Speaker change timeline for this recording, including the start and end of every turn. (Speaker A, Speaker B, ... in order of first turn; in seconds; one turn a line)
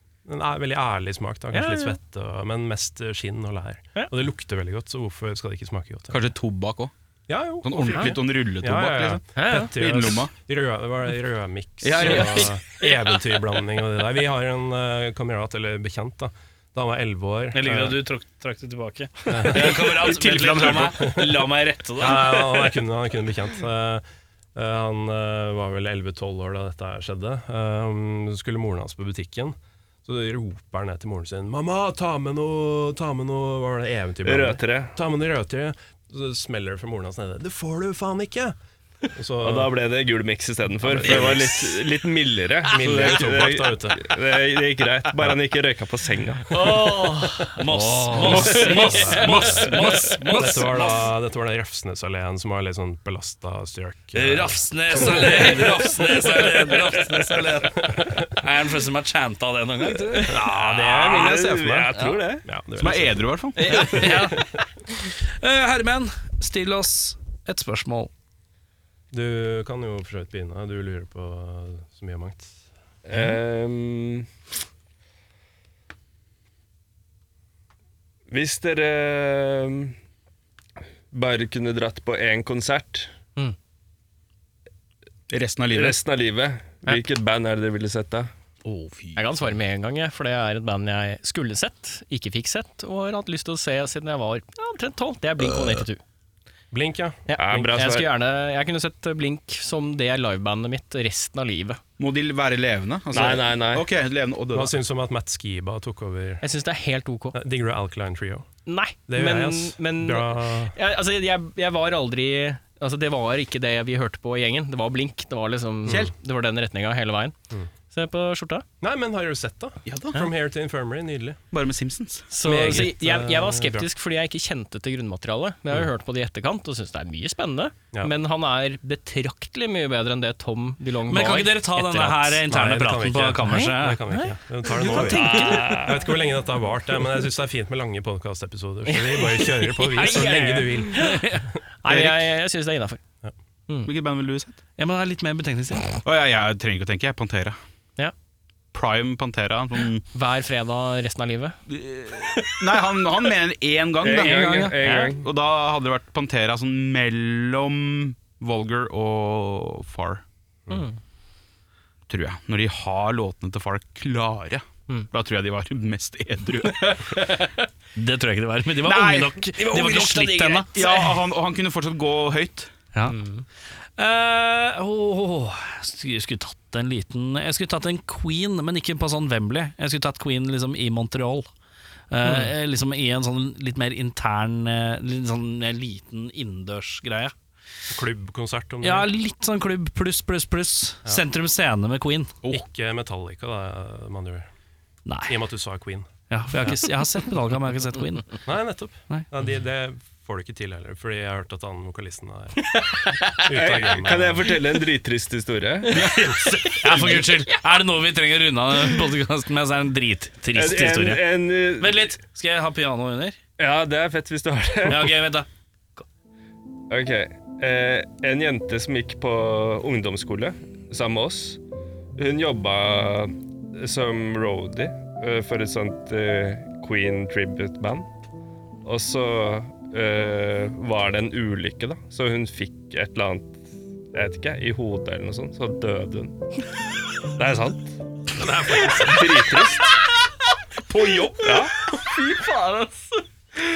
Speaker A: 0.2-6.2
Speaker B: 1.5-2.0
Speaker C: 6.1-6.9
Speaker A: 7.3-18.0
Speaker C: 7.6-10.3
Speaker B: 7.9-8.2
Speaker B: 9.3-9.7
Speaker C: 11.8-12.5
Speaker B: 12.0-13.1
Speaker D: 17.5-22.7
Speaker A: 19.3-21.4
Speaker C: 20.1-20.9
Speaker A: 22.0-24.0
Speaker A: 24.5-38.5
Speaker E: 34.2-35.0
Speaker A: 39.1-39.7
Speaker E: 39.4-46.5
Speaker A: 40.8-41.8
Speaker A: 42.7-44.0
Speaker B: 46.5-50.6
Speaker A: 46.6-47.5
Speaker D: 47.6-51.1
Speaker C: 48.2-49.7
Speaker A: 48.3-49.7
Speaker A: 50.3-56.5
Speaker D: 54.1-60.4
Speaker A: 57.8-58.2
Speaker A: 60.2-64.3
Speaker E: 60.5-62.5
Speaker C: 62.8-63.6
Speaker D: 63.6-68.1
Speaker B: 63.6-64.3
Speaker A: 69.1-72.5
Speaker E: 73.0-74.3
Speaker E: 78.3-79.9
Speaker E: 81.1-83.1
Speaker C: 85.3-86.0
Speaker E: 85.7-88.3
Speaker C: 88.6-89.5
Speaker B: 89.2-96.0
Speaker A: 96.7-97.7
Speaker B: 97.3-101.8
Speaker E: 97.4-98.1
Speaker C: 102.0-104.7
Speaker E: 103.1-103.8
Speaker A: 104.5-106.4
Speaker B: 106.4-107.4
Speaker A: 107.3-108.5
Speaker B: 108.7-117.3
Speaker A: 109.1-110.8
Speaker C: 115.9-116.1
Speaker B: 117.9-118.7
Speaker A: 118.8-121.4
Speaker C: 119.8-120.2
Speaker C: 121.5-122.3
Speaker B: 122.3-131.9
Speaker A: 122.4-123.9
Speaker D: 131.1-134.0
Speaker A: 131.9-141.4
Speaker B: 133.4-135.9
Speaker E: 135.1-136.0
Speaker B: 138.9-141.3
Speaker D: 140.2-141.4
Speaker B: 141.8-143.0
Speaker C: 141.9-142.1
Speaker C: 143.8-144.6
Speaker D: 144.8-146.0
Speaker C: 146.0-147.6
Speaker C: 148.7-150.0
Speaker B: 150.1-151.6
Speaker C: 151.7-160.2
Speaker B: 152.3-152.6
Speaker E: 154.0-155.2
Speaker D: 154.2-154.7
Speaker B: 154.8-155.2
Speaker B: 160.7-160.9
Speaker C: 162.1-167.3
Speaker B: 166.8-167.5
Speaker D: 167.9-170.9
Speaker C: 168.8-172.7
Speaker B: 169.6-170.1
Speaker B: 170.8-171.1
Speaker B: 173.1-173.4
Speaker D: 174.0-181.5
Speaker D: 182.1-187.3
Speaker B: 182.2-182.5
Speaker A: 187.9-189.1
Speaker D: 188.8-192.4
Speaker A: 192.5-194.5
Speaker D: 195.1-195.4
Speaker A: 195.3-196.1
Speaker D: 196.3-198.4
Speaker A: 198.4-204.5
Speaker E: 203.5-206.2
Speaker B: 205.9-206.2
Speaker D: 206.5-213.4
Speaker E: 210.5-212.2
Speaker E: 213.6-215.1
Speaker D: 214.8-215.5
Speaker E: 216.9-221.6
Speaker E: 222.2-228.1
Speaker E: 228.8-233.6
Speaker E: 234.1-236.3
Speaker E: 237.3-238.0
Speaker A: 238.3-239.4
Speaker E: 238.9-240.0
Speaker C: 240.9-241.6
Speaker E: 241.4-241.7
Speaker B: 241.8-243.2